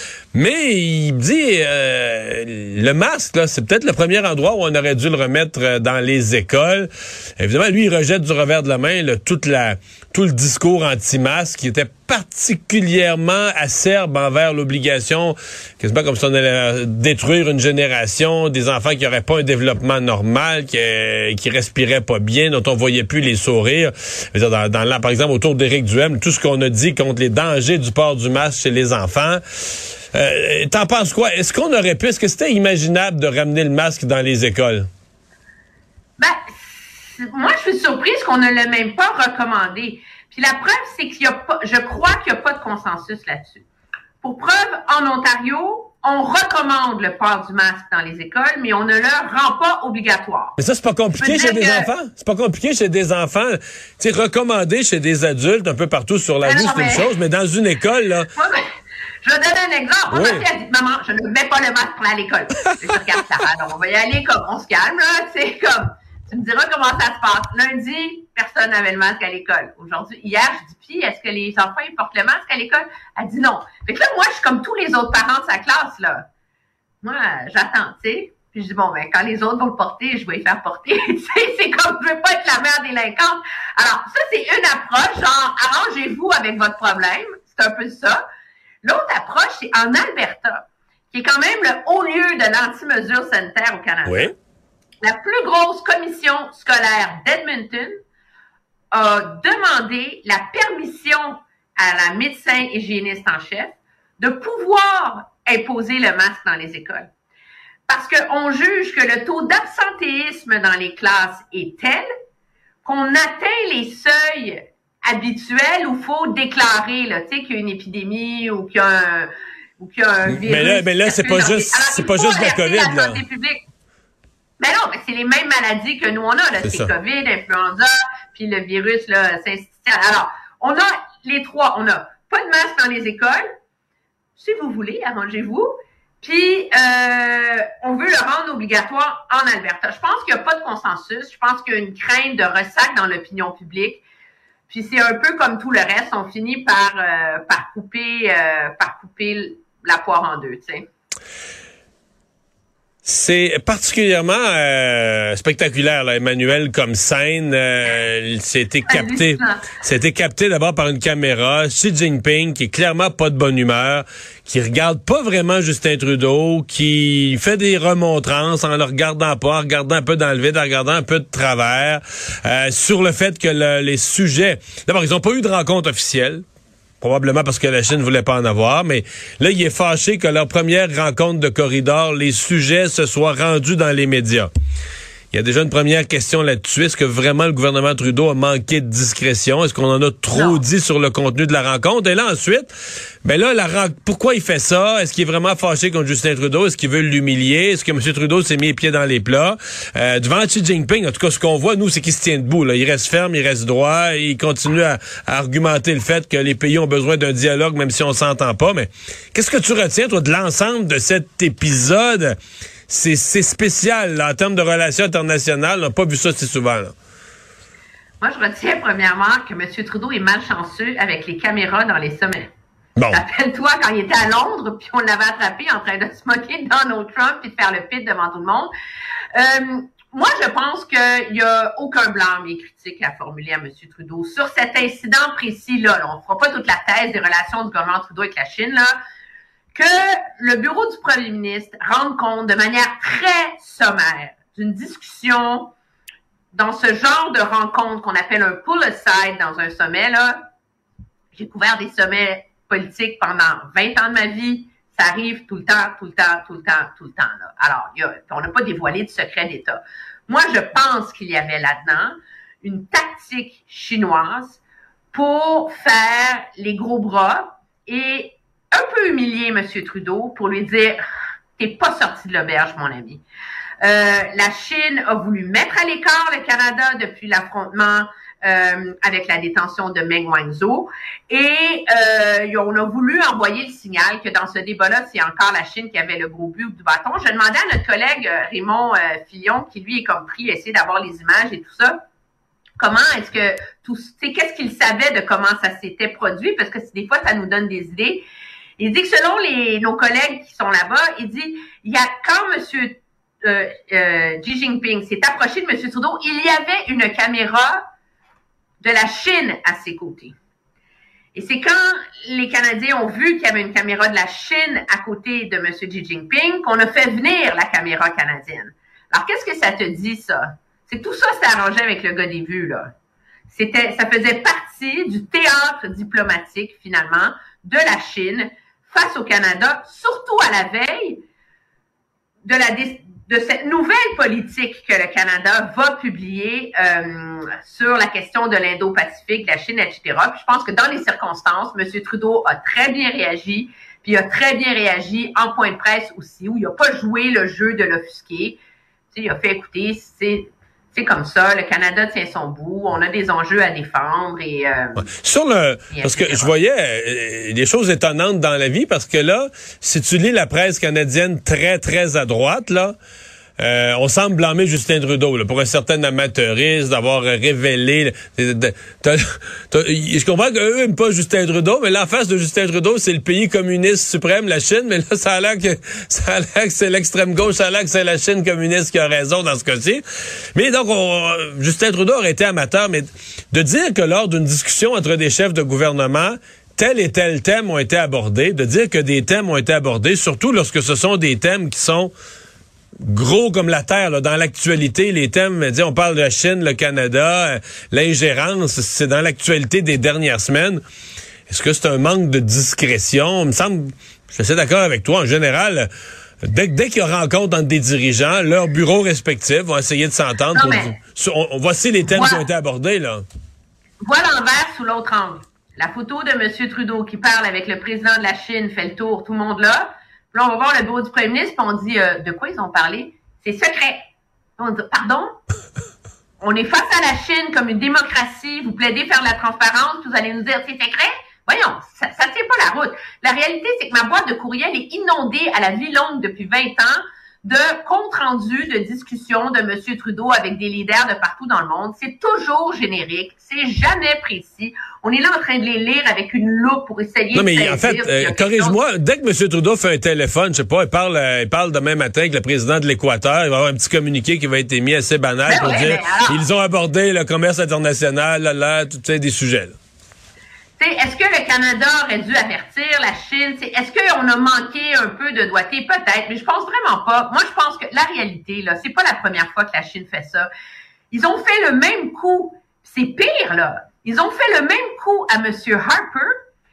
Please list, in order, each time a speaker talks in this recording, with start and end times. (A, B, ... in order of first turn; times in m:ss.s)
0:00.3-0:29.4 A
0:30.1-0:34.8 A
0:36.2-0:43.6 B
0:44.2-0:50.6 B
0:50.6-0:58.3 A
0:51.2-0:51.9 B
0:56.4-0:57.1 B
0:58.4-0:58.6 B
0:59.2-1:16.2 B
1:00.1-1:00.4 A
1:17.0-1:28.2 B
1:28.8-1:34.3 B
1:34.0-1:34.3 A
1:35.0-1:37.9 B
1:38.9-1:47.1 B
1:47.9-1:52.0 B
1:52.8-2:03.6 B
2:00.3-2:03.2 A
2:04.6-2:13.4 B
2:06.6-2:06.9 A
2:14.4-2:15.7 B
2:16.2-2:24.0 B
2:24.7-2:30.8 B
2:33.0-2:56.4 A
2:38.9-2:39.7 B
2:57.0-3:04.5 A
3:05.3-3:12.7 A
3:10.3-3:10.6 B
3:13.2-3:32.3 A
3:32.9-3:36.9 A
3:38.2-3:42.5 B
3:43.0-3:43.2 A
3:43.1-3:48.7 B
3:49.3-3:58.9 B
3:59.7-4:05.7 B
4:06.5-4:10.4 B
4:11.3-4:24.6 B
4:25.1-4:31.0 B
4:31.6-4:33.2 B
4:33.8-4:52.0 B
4:52.8-4:58.2 B
4:58.8-5:07.8 B
5:08.8-5:10.4 B
5:11.3-5:22.9 B
5:23.5-5:31.2 B
5:32.4-5:48.6 B
5:49.1-5:55.0 B
5:55.0-6:02.9 A
5:55.9-5:56.5 B
6:03.6-6:20.0 A
6:20.5-6:32.1 A
6:33.0-6:40.8 A
6:41.5-6:45.9 A
6:46.4-6:53.2 A
6:50.5-6:50.9 B
6:52.1-6:52.4 B
6:54.0-7:04.0 B
7:04.6-7:05.3 B
7:06.4-7:28.8 B
7:27.3-7:39.7 A
7:35.4-7:36.4 B
7:40.8-7:50.5 B
7:51.1-7:56.3 B